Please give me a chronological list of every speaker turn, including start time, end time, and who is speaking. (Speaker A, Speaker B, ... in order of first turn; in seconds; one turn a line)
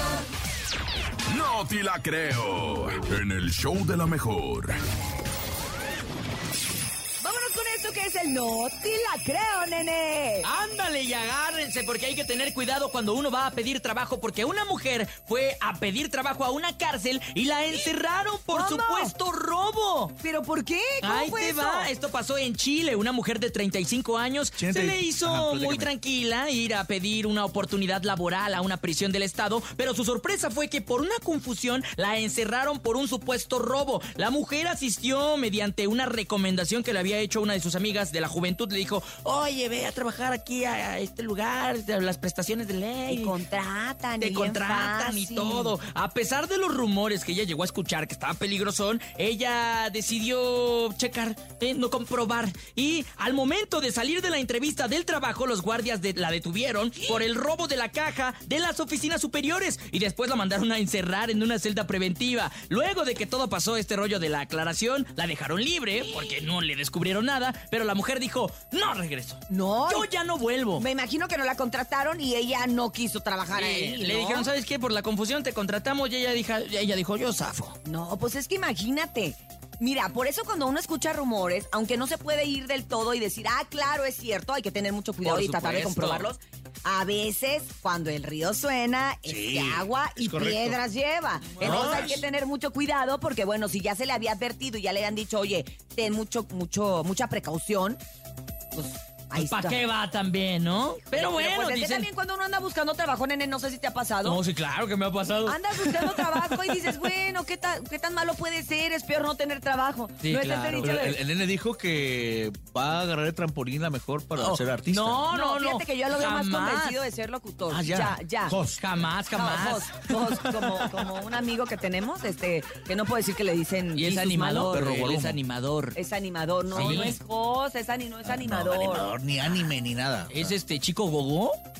Speaker A: 1.3-4.8
Speaker B: 7.2-10.5
Speaker C: 10.4-20.1
Speaker B: 18.5-19.1
Speaker B: 20.2-21.9
Speaker C: 21.0-43.4
Speaker D: 24.6-25.9
Speaker B: 43.1-45.7
Speaker C: 44.2-70.8
Speaker B: 69.5-70.1
Speaker B: 70.8-74.5
Speaker C: 73.5-77.8
Speaker B: 77.8-98.0
Speaker C: 85.2-86.3
Speaker D: 89.2-90.8
Speaker C: 91.5-92.2
Speaker D: 91.6-92.2
Speaker B: 98.7-99.8
Speaker C: 99.3-102.1
Speaker B: 101.1-104.4
Speaker C: 104.2-106.8
Speaker B: 105.5-111.2
Speaker C: 110.2-111.1
Speaker D: 110.8-115.2
Speaker C: 114.4-117.0
Speaker B: 115.3-118.5
Speaker D: 117.7-118.8
Speaker C: 118.7-121.0
Speaker B: 119.3-124.9
Speaker C: 123.9-126.0
Speaker D: 124.7-125.4
Speaker B: 125.9-129.1
Speaker D: 126.7-127.2
Speaker C: 126.7-127.2
Speaker D: 128.2-130.6
Speaker C: 130.3-131.6